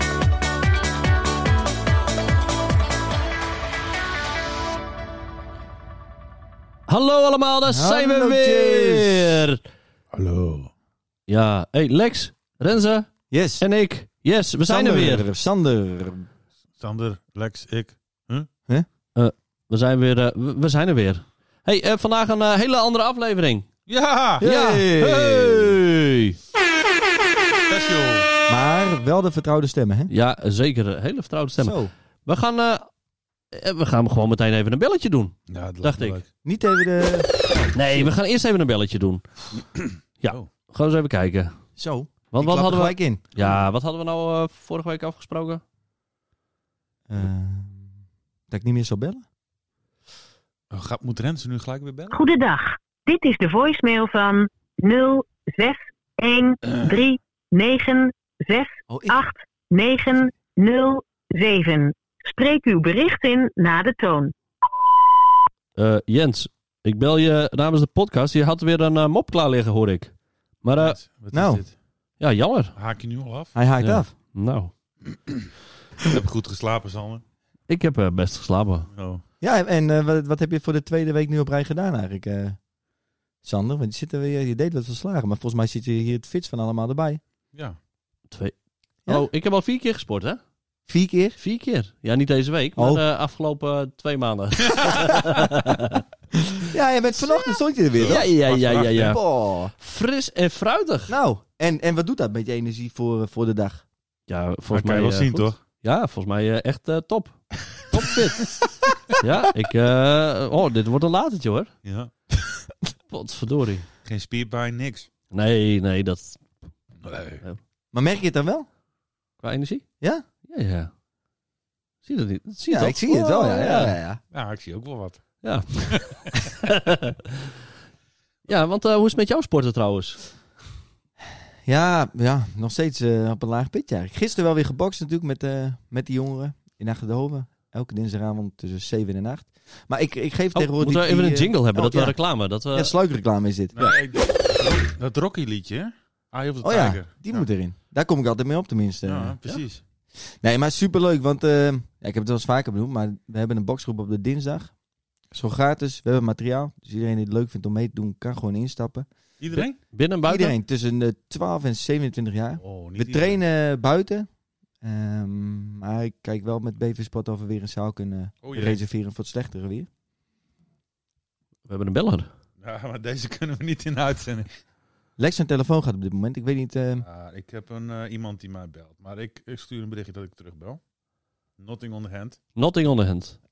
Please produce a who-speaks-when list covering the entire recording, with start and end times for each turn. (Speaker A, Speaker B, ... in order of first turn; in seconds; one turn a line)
Speaker A: 6.9-9.6
Speaker B: 7.7-9.4
Speaker C: 10.1-10.7
Speaker A: 11.3-15.3
Speaker B: 13.3-13.6
Speaker B: 14.7-16.3
Speaker C: 16.8-18.5
Speaker A: 19.1-23.7
Speaker C: 23.9-24.4
Speaker B: 24.4-25.8
Speaker A: 24.4-26.4
Speaker C: 27.7-28.3
Speaker B: 28.5-30.1
Speaker A: 30.1-32.9
Speaker B: 31.6-31.9
Speaker A: 33.5-36.2
Speaker C: 35.5-36.3
Speaker B: 36.4-38.1
Speaker A: 37.7-39.3
Speaker C: 39.6-40.5
Speaker A: 40.2-41.6
Speaker B: 41.8-43.2
Speaker A: 42.3-45.6
Speaker B: 47.1-47.9
Speaker B: 48.5-49.2
Speaker C: 50.7-52.2
Speaker D: 52.1-64.3
Speaker C: 56.6-56.9
Speaker B: 58.9-59.2
Speaker A: 65.8-71.0
Speaker C: 70.8-71.7
Speaker B: 71.3-71.6
Speaker A: 72.2-72.8
Speaker C: 72.8-73.5
Speaker B: 73.5-74.1
Speaker A: 73.8-74.7
Speaker C: 76.0-77.2
Speaker A: 77.7-78.9
Speaker C: 78.9-79.2
Speaker B: 79.4-82.6
Speaker B: 83.4-87.2
Speaker A: 88.3-90.4
Speaker B: 90.9-91.4
Speaker A: 91.4-96.0
Speaker B: 92.8-93.0
Speaker B: 96.7-99.7
Speaker C: 97.9-99.1
Speaker A: 98.1-99.2
Speaker A: 99.8-101.2
Speaker B: 101.1-103.8
Speaker A: 104.3-108.5
Speaker C: 104.7-105.6
Speaker A: 109.1-111.7
Speaker C: 111.8-112.1
Speaker A: 113.1-113.9
Speaker C: 114.0-115.1
Speaker A: 115.3-116.5
Speaker C: 117.0-117.4
Speaker B: 117.9-118.7
Speaker A: 119.4-119.9
Speaker A: 120.4-120.9
Speaker A: 122.0-124.0
Speaker B: 122.7-124.2
Speaker C: 124.3-126.3
Speaker A: 125.4-126.0
Speaker A: 128.5-130.3
Speaker B: 131.7-144.0
Speaker A: 140.6-142.9
Speaker C: 143.8-147.5
Speaker B: 146.6-149.4
Speaker C: 149.1-149.8
Speaker B: 150.2-154.8
Speaker B: 155.3-159.7
Speaker C: 159.4-159.8
Speaker A: 159.9-160.6
Speaker B: 160.2-164.3
Speaker C: 162.6-163.4
Speaker B: 164.8-169.9
Speaker C: 168.4-168.8
Speaker A: 171.7-172.3
Speaker C: 172.6-174.5
Speaker B: 175.2-177.1
Speaker C: 177.0-180.8
Speaker C: 181.6-182.4
Speaker A: 182.6-183.4